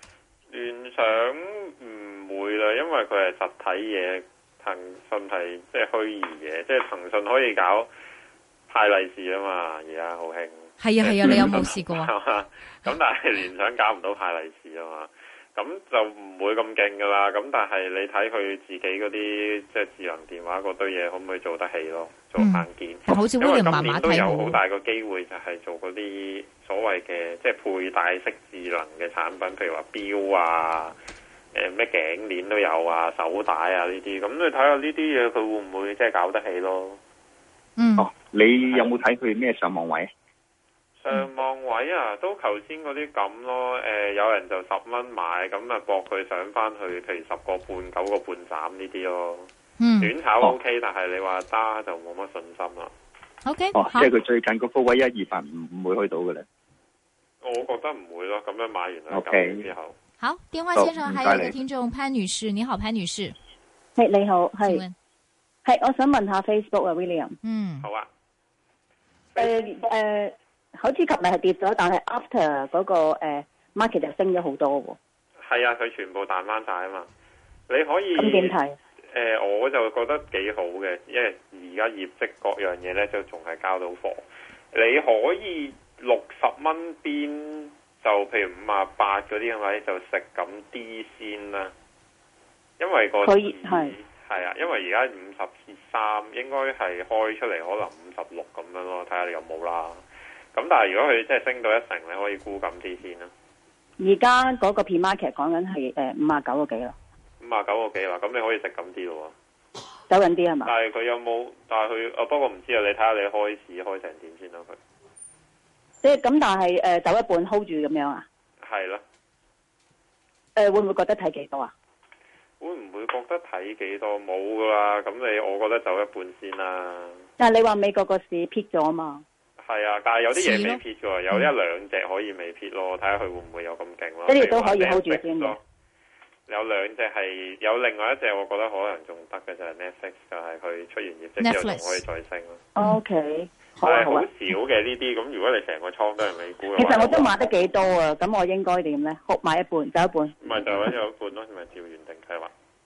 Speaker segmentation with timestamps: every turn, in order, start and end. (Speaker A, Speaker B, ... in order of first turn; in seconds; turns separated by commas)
Speaker A: 0.5-7.9, Speaker A: 8.7-30.9, Speaker B: 10.8-12.1, Speaker B: 22.4-24.6, Speaker A: 31.5-37.0, Speaker B: 37.8-38.1, Speaker C: 38.0-40.1, Speaker A: 41.0-49.5, Speaker B: 49.8-50.1, Speaker A: 50.0-52.9, Speaker B: 53.4-54.1, Speaker C: 53.7-56.5, Speaker A: 57.4-59.9, Speaker C: 59.1-59.7, Speaker B: 60.2-63.4, Speaker C: 60.8-61.5, Speaker D: 64.0-64.8, Speaker B: 64.6-64.9, Speaker D: 65.6-67.3, Speaker B: 67.4-67.9, Speaker A: 67.8-68.1, Speaker A: 69.3-69.6, Speaker D: 69.4-75.0, Speaker A: 75.4-77.1, Speaker A: 77.7-78.5, Speaker D: 78.1-78.8, Speaker A: 79.1-91.7, Speaker A: 92.8-100.0, Speaker D: 93.2-93.9, Speaker A: 100.5-103.3, Speaker D: 104.0-106.9, Speaker A: 107.4-109.3, Speaker D: 110.1-110.7, Speaker A: 110.6-114.8, Speaker D: 116.0-118.2, Speaker A: 118.6-119.0, Speaker D: 120.5-121.7, Speaker A: 122.6-127.2, Speaker D: 127.4-129.2, Speaker A: 129.6-135.6, Speaker B: 130.3-131.5, Speaker D: 134.3-135.6, Speaker A: 136.5-142.6, Speaker B: 141.4-142.0, Speaker D: 142.8-144.3, Speaker A: 143.8-147.3, Speaker D: 146.8-150.4, Speaker A: 150.4-152.5